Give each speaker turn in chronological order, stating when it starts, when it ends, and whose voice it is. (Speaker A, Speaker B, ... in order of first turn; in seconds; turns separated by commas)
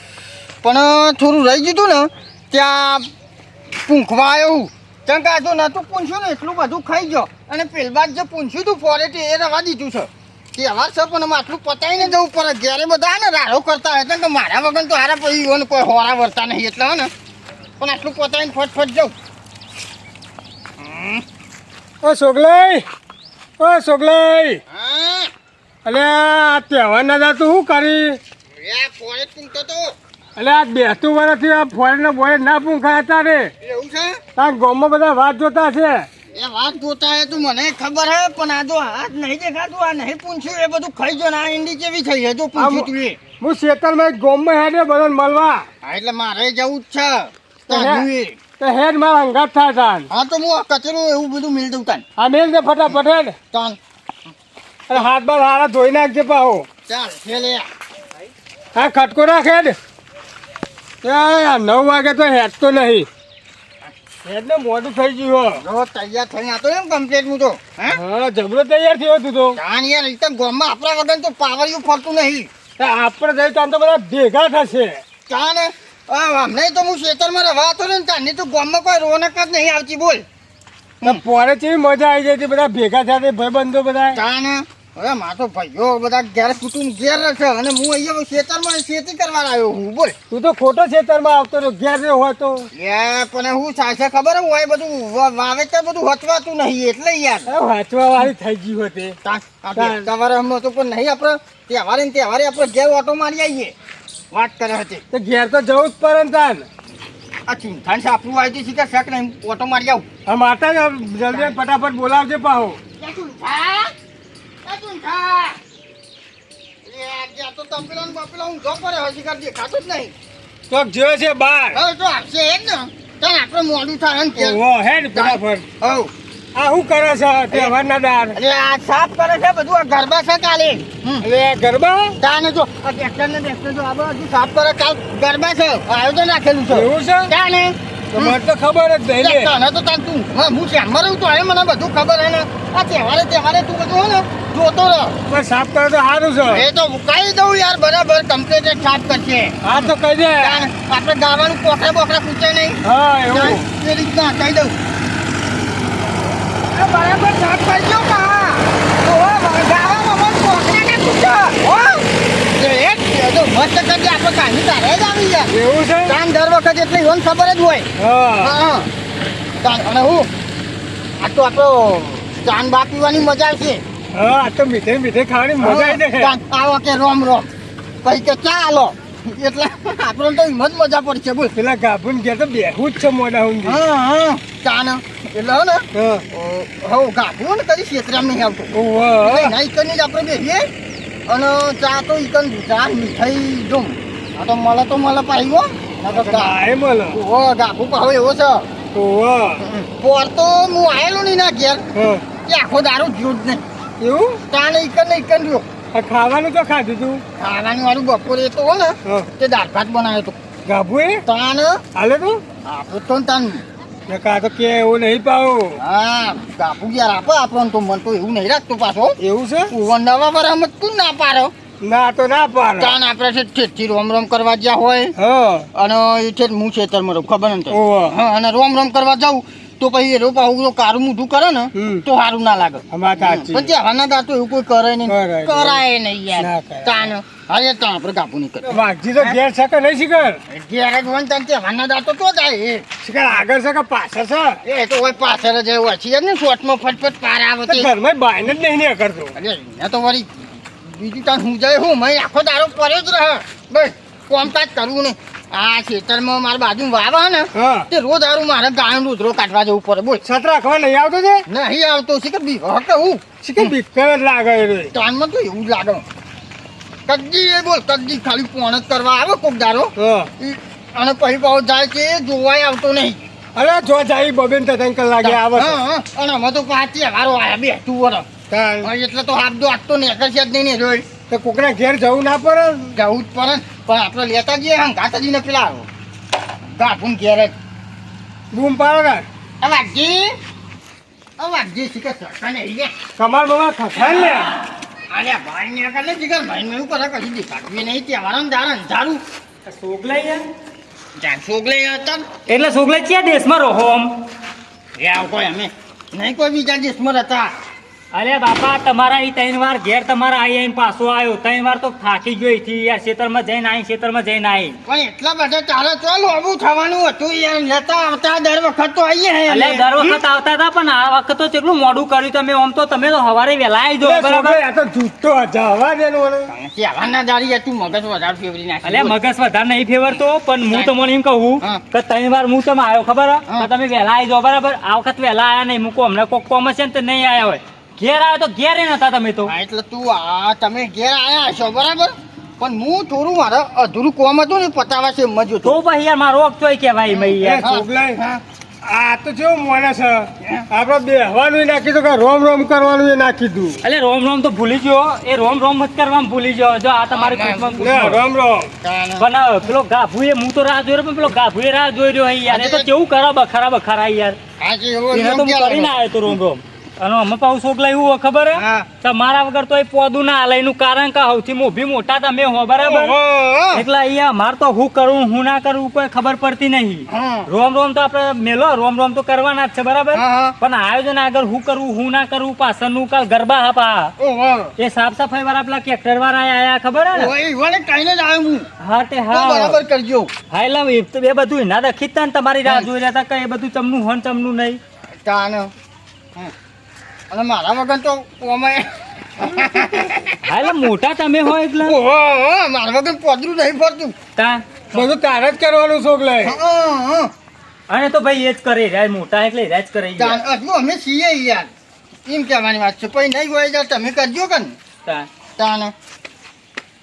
Speaker A: 0.6-3.1, Speaker A: 3.8-17.1, Speaker A: 17.8-19.1, Speaker A: 20.8-21.2, Speaker B: 22.0-22.9, Speaker B: 23.6-24.6, Speaker A: 24.7-25.3, Speaker B: 25.8-28.2, Speaker A: 28.6-29.9, Speaker B: 30.4-33.5, Speaker A: 33.6-34.2, Speaker B: 34.4-36.1, Speaker A: 36.3-43.2, Speaker B: 42.5-45.6, Speaker A: 45.8-48.4, Speaker B: 47.7-48.1, Speaker B: 48.6-50.1, Speaker A: 50.1-52.0, Speaker B: 52.2-53.4, Speaker A: 53.5-53.8, Speaker B: 54.9-56.6, Speaker A: 56.9-57.7, Speaker B: 58.7-59.8, Speaker B: 61.0-63.1, Speaker B: 64.2-65.6, Speaker A: 65.5-68.0, Speaker B: 67.9-69.6, Speaker A: 69.5-72.5, Speaker B: 72.8-75.0, Speaker A: 75.3-80.2, Speaker B: 81.0-84.2, Speaker A: 84.1-90.2, Speaker B: 90.3-92.7, Speaker A: 92.7-97.5, Speaker B: 97.5-99.2, Speaker A: 99.2-103.7, Speaker B: 99.8-100.0, Speaker A: 104.3-105.0, Speaker B: 105.1-106.7, Speaker A: 107.5-110.0, Speaker B: 110.2-112.8, Speaker A: 113.0-113.9, Speaker A: 114.6-115.6, Speaker A: 116.8-120.1, Speaker B: 120.7-121.8, Speaker A: 121.7-124.6, Speaker B: 124.3-125.6, Speaker A: 125.1-126.1, Speaker B: 126.5-128.4, Speaker A: 128.3-131.2, Speaker B: 131.2-132.2, Speaker A: 132.2-138.4, Speaker B: 136.7-137.3, Speaker B: 138.1-139.5, Speaker A: 139.2-145.2, Speaker B: 145.3-146.7, Speaker A: 146.5-154.7, Speaker B: 149.6-150.7, Speaker B: 152.8-153.6, Speaker A: 156.7-165.5, Speaker B: 165.5-166.2, Speaker A: 166.1-167.9, Speaker B: 168.0-168.5, Speaker A: 168.4-168.9, Speaker A: 169.6-170.3, Speaker A: 171.2-173.8, Speaker B: 174.1-176.3, Speaker A: 175.6-177.5, Speaker A: 178.0-181.5, Speaker B: 181.5-183.8, Speaker A: 183.6-188.7, Speaker B: 185.9-186.2, Speaker B: 188.7-189.5, Speaker A: 189.2-190.7, Speaker A: 191.3-196.5, Speaker B: 196.1-197.2, Speaker A: 197.1-198.7, Speaker B: 198.9-199.6, Speaker A: 199.6-201.8, Speaker B: 201.9-202.2, Speaker A: 202.4-203.7, Speaker B: 204.0-204.4, Speaker A: 204.5-205.7, Speaker B: 205.9-207.2, Speaker A: 207.4-210.3, Speaker B: 210.7-211.2, Speaker A: 211.2-211.8, Speaker B: 211.9-212.4, Speaker A: 212.6-213.6, Speaker B: 214.1-215.8, Speaker A: 215.8-219.2, Speaker B: 219.2-219.7, Speaker A: 219.7-221.5, Speaker B: 221.8-222.9, Speaker A: 222.8-225.1, Speaker B: 225.2-225.7, Speaker A: 225.7-239.4, Speaker B: 227.7-228.2, Speaker B: 231.8-232.0, Speaker B: 232.9-233.7, Speaker B: 235.1-235.8, Speaker B: 236.3-237.1, Speaker B: 238.6-240.4, Speaker A: 240.5-242.8, Speaker B: 243.0-244.6, Speaker A: 244.6-247.9, Speaker B: 247.7-249.3, Speaker A: 249.3-250.3, Speaker A: 250.8-260.2, Speaker B: 257.5-257.9, Speaker B: 260.2-261.4, Speaker A: 261.5-263.7, Speaker B: 263.4-264.9, Speaker A: 264.9-266.0, Speaker A: 267.1-273.3, Speaker B: 270.0-270.3, Speaker B: 273.5-275.8, Speaker A: 275.2-278.3, Speaker B: 278.5-278.9, Speaker A: 278.8-281.0, Speaker B: 281.3-282.9, Speaker A: 282.9-285.9, Speaker A: 286.6-287.5, Speaker B: 288.5-289.2, Speaker A: 289.6-290.3, Speaker A: 291.4-292.9, Speaker B: 293.2-294.5, Speaker A: 295.1-299.2, Speaker C: 299.6-300.4, Speaker A: 301.2-302.2, Speaker C: 302.5-304.1, Speaker A: 305.0-307.5, Speaker C: 308.1-314.8, Speaker A: 314.9-320.2, Speaker C: 319.5-324.6, Speaker B: 324.0-326.5, Speaker A: 326.5-329.1, Speaker C: 328.8-339.5, Speaker A: 330.6-330.9, Speaker A: 339.5-345.8, Speaker C: 345.6-347.7, Speaker A: 347.1-348.4, Speaker B: 347.4-348.2, Speaker B: 348.8-353.8, Speaker C: 353.8-358.2, Speaker A: 357.1-357.9, Speaker B: 357.8-358.7, Speaker A: 358.8-359.2, Speaker C: 359.2-364.4, Speaker A: 362.5-362.9, Speaker A: 364.6-366.4, Speaker C: 365.1-373.1, Speaker A: 368.6-368.9, Speaker A: 372.8-373.8, Speaker C: 373.7-384.1, Speaker A: 377.1-377.5, Speaker A: 380.1-380.5, Speaker A: 384.2-384.7, Speaker C: 384.8-387.3, Speaker A: 387.1-388.7, Speaker C: 388.8-389.8, Speaker A: 389.3-390.3, Speaker C: 390.5-394.8, Speaker A: 395.2-395.7, Speaker A: 397.3-400.4, Speaker C: 400.4-401.9, Speaker A: 401.8-404.1, Speaker C: 404.4-404.6, Speaker B: 404.9-406.6, Speaker A: 406.4-407.3, Speaker C: 407.9-410.4, Speaker A: 410.2-411.7, Speaker A: 412.2-414.8, Speaker A: 415.6-415.9